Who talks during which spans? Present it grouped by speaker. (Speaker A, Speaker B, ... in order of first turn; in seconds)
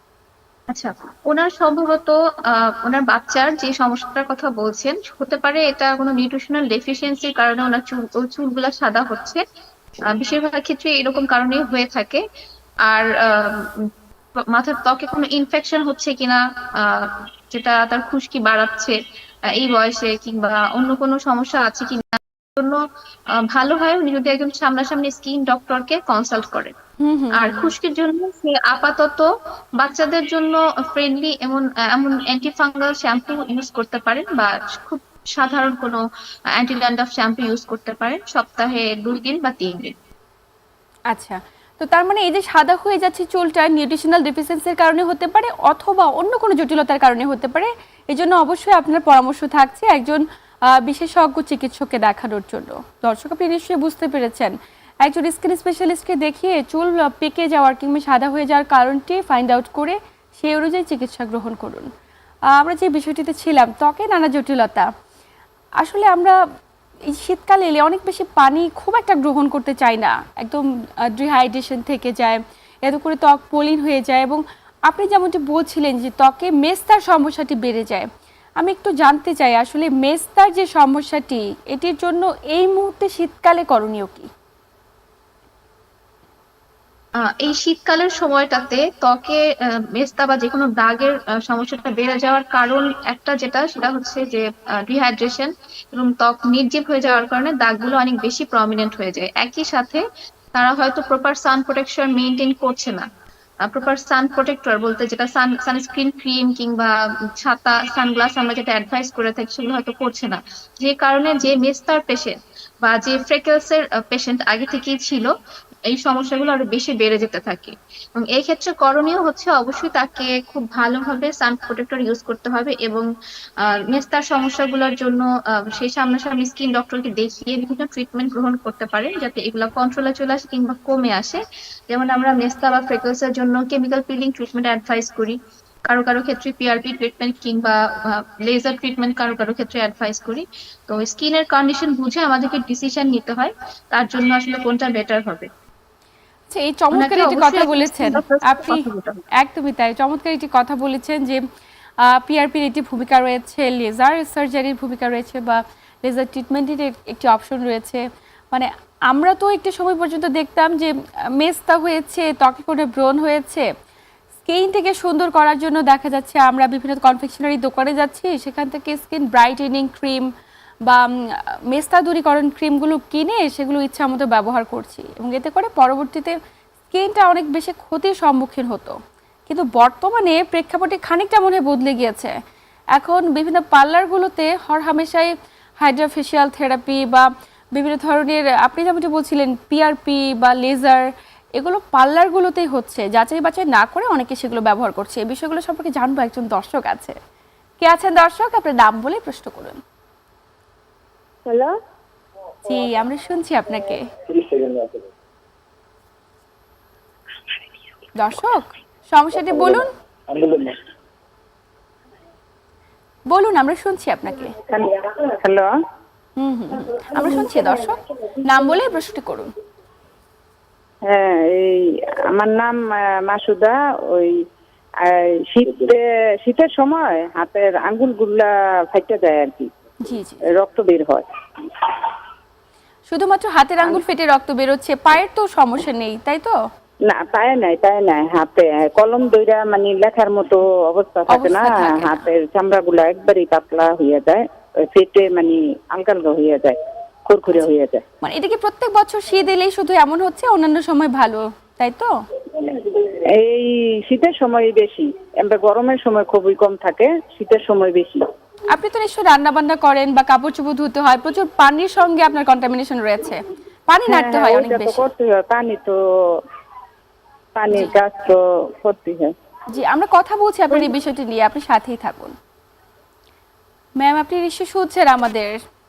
Speaker A: 0.7-9.4, 10.1-12.2, 12.8-13.7, 14.5-19.0, 19.5-22.8, 23.3-26.7, 27.3-29.3, 29.8-36.0, 36.5-39.9, 87.2-100.0, 100.5-103.1, 103.6-115.3, 115.9-123.1, 123.6-145.5, 146.9-149.2
Speaker B: 27.0-27.7, 41.1-50.2, 50.8-54.5, 55.0-61.9, 62.5-64.9, 65.8-66.3, 67.1-78.1, 78.6-84.3, 146.5-148.8, 149.4-151.4, 152.0-163.6, 164.4-170.3, 171.7-176.3, 176.9-182.3, 182.9-191.1, 191.6-197.2, 197.8-199.8, 202.7-204.1, 208.2-209.9, 213.3-214.5, 216.4-219.5, 230.0-230.4, 233.1-236.5, 241.3-242.2, 248.2-252.1, 258.7-265.0, 269.7-272.3, 274.0-275.6
Speaker C: 214.7-215.7, 221.1-224.4, 225.0-229.7, 230.6-231.3, 237.1-248.0, 253.3-258.2, 264.1-265.9, 267.5-269.3